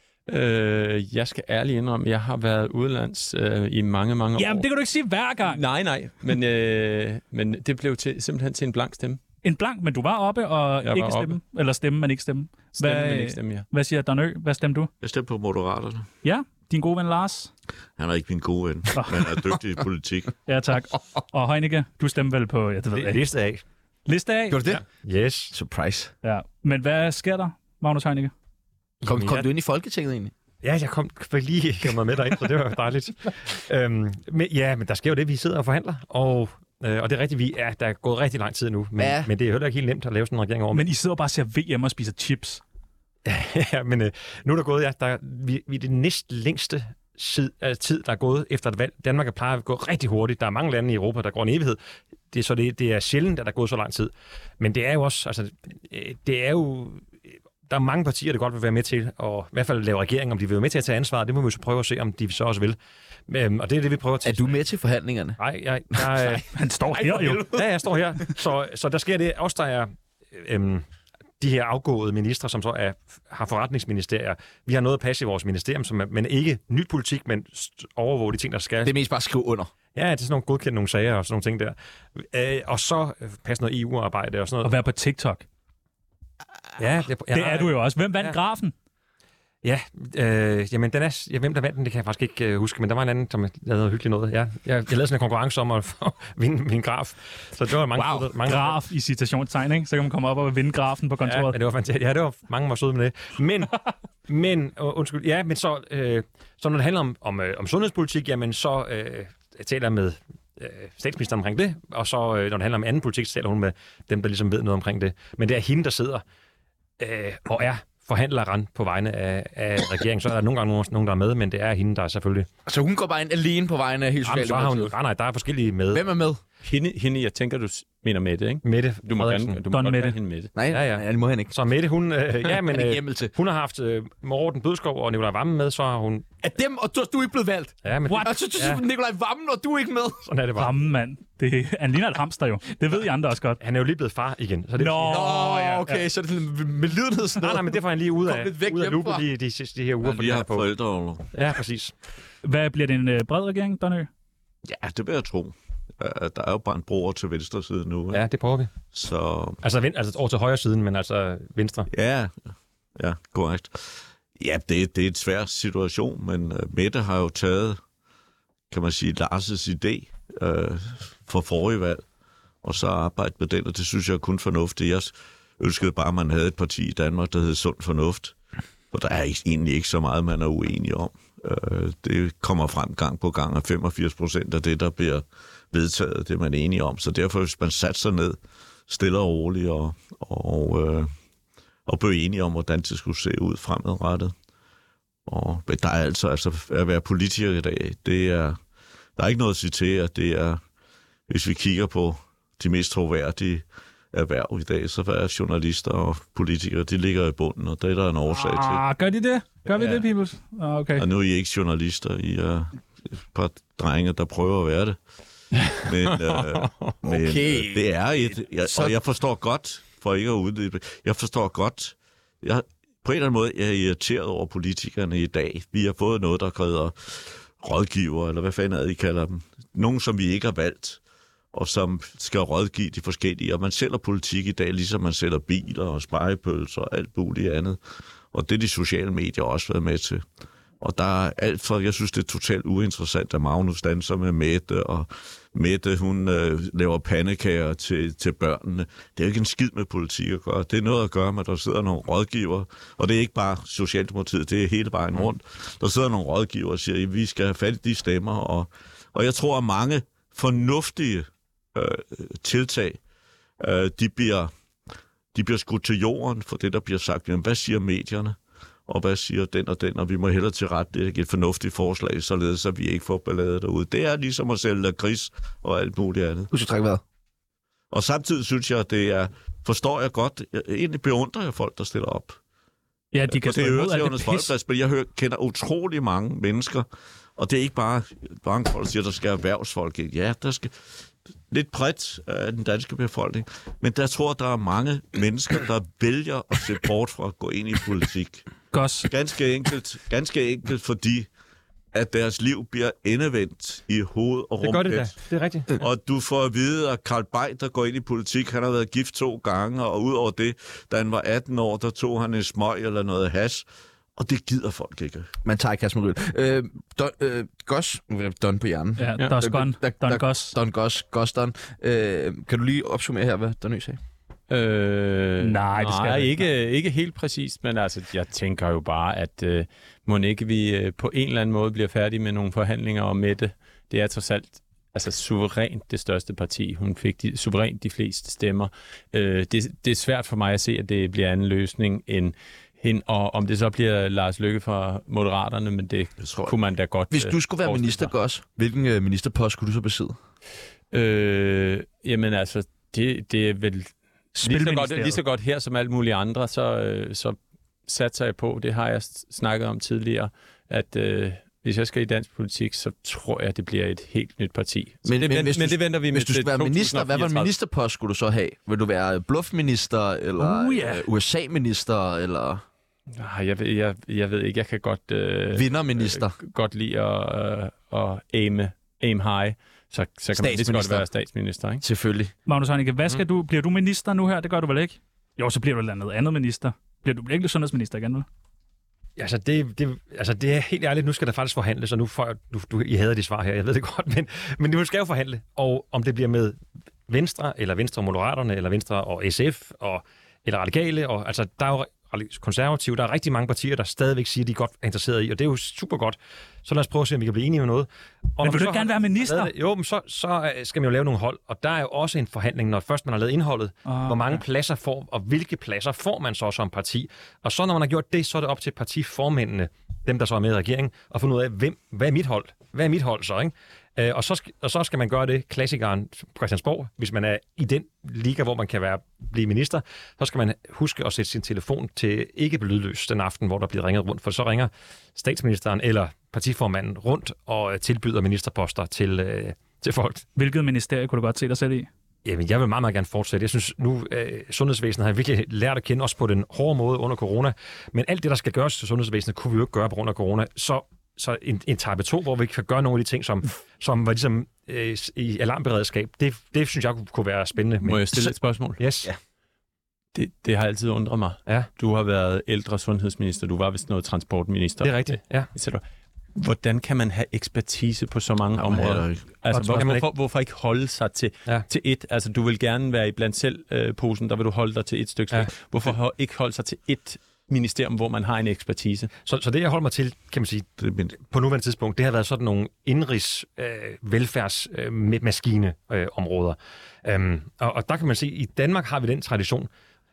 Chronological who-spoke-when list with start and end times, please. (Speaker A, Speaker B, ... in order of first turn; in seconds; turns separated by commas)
Speaker A: 0.3-4.7, Speaker B: 4.4-5.6, Speaker A: 5.4-9.2, Speaker B: 9.4-14.9, Speaker A: 10.8-11.4, Speaker A: 12.8-13.7, Speaker C: 15.0-16.1, Speaker B: 16.2-17.5, Speaker C: 18.0-20.3, Speaker B: 18.9-19.2, Speaker B: 20.5-23.2, Speaker D: 22.9-23.6, Speaker B: 24.1-24.6, Speaker E: 24.5-24.8, Speaker D: 24.6-25.5, Speaker E: 25.5-26.1, Speaker B: 26.2-28.3, Speaker D: 29.0-29.5, Speaker E: 29.0-30.3, Speaker D: 30.6-40.9, Speaker E: 39.0-39.3, Speaker B: 40.7-42.6, Speaker D: 43.2-51.8, Speaker D: 52.3-57.1, Speaker D: 57.7-62.8, Speaker D: 63.3-64.6, Speaker E: 64.2-65.4, Speaker D: 65.4-70.8, Speaker E: 66.0-66.3, Speaker B: 66.5-67.5, Speaker E: 67.0-67.6, Speaker D: 71.4-78.9, Speaker E: 78.8-79.7, Speaker D: 79.9-84.8, Speaker B: 84.6-85.4, Speaker D: 86.8-88.4, Speaker B: 87.3-88.7, Speaker D: 89.6-98.8, Speaker B: 97.9-101.5, Speaker D: 101.2-116.2, Speaker D: 117.0-122.5, Speaker E: 122.7-124.9, Speaker D: 124.2-126.1, Speaker E: 125.9-126.4, Speaker A: 126.6-130.5, Speaker D: 128.6-129.6, Speaker B: 129.7-130.2, Speaker E: 130.5-131.5, Speaker D: 130.7-136.3, Speaker E: 132.4-133.3, Speaker E: 136.4-140.2, Speaker D: 137.8-138.8, Speaker D: 140.2-140.7, Speaker B: 140.6-143.6, Speaker D: 143.6-145.5, Speaker B: 144.8-146.0, Speaker E: 145.0-149.2, Speaker D: 147.4-150.7, Speaker C: 150.0-151.3, Speaker D: 151.3-151.9, Speaker B: 152.4-154.1, Speaker C: 154.6-158.2, Speaker D: 158.1-158.7, Speaker C: 158.9-159.6, Speaker D: 159.6-161.9, Speaker C: 161.9-162.3, Speaker C: 163.0-167.8, Speaker C: 168.7-172.0, Speaker C: 172.6-178.3, Speaker C: 178.9-191.1, Speaker C: 191.8-194.3, Speaker C: 195.2-198.6, Speaker C: 199.2-200.6, Speaker C: 201.3-208.8, Speaker B: 208.3-211.1, Speaker C: 210.9-215.0, Speaker C: 215.8-231.0, Speaker A: 216.1-216.9, Speaker E: 217.0-217.8, Speaker C: 231.5-237.8, Speaker C: 238.3-240.2, Speaker C: 240.8-263.0, Speaker C: 263.6-264.5, Speaker C: 265.3-276.5, Speaker E: 276.5-277.0, Speaker C: 277.9-282.4, Speaker B: 283.1-284.5, Speaker C: 283.3-290.7, Speaker C: 291.5-298.4, Speaker B: 298.7-299.1, Speaker C: 299.1-301.3, Speaker C: 301.9-313.6, Speaker D: 304.6-305.7, Speaker C: 314.2-315.3, Speaker E: 315.4-324.0, Speaker B: 319.0-320.6, Speaker A: 324.5-348.1, Speaker B: 325.4-326.5, Speaker E: 347.1-350.2, Speaker A: 350.9-367.5, Speaker B: 354.4-355.2, Speaker E: 365.0-372.6, Speaker B: 370.4-371.0, Speaker A: 373.1-381.8, Speaker E: 375.5-376.3, Speaker E: 380.3-381.1, Speaker E: 381.8-382.3, Speaker B: 382.5-388.2, Speaker D: 389.2-440.2, Speaker B: 408.4-409.5, Speaker B: 413.8-414.4, Speaker B: 440.4-441.9, Speaker D: 442.2-458.2, Speaker A: 457.8-458.8, Speaker D: 458.8-459.1, Speaker A: 460.1-465.8, Speaker D: 464.8-465.5, Speaker A: 466.3-479.1, Speaker C: 468.6-469.3, Speaker D: 469.5-470.1, Speaker D: 479.2-489.7, Speaker C: 480.8-481.1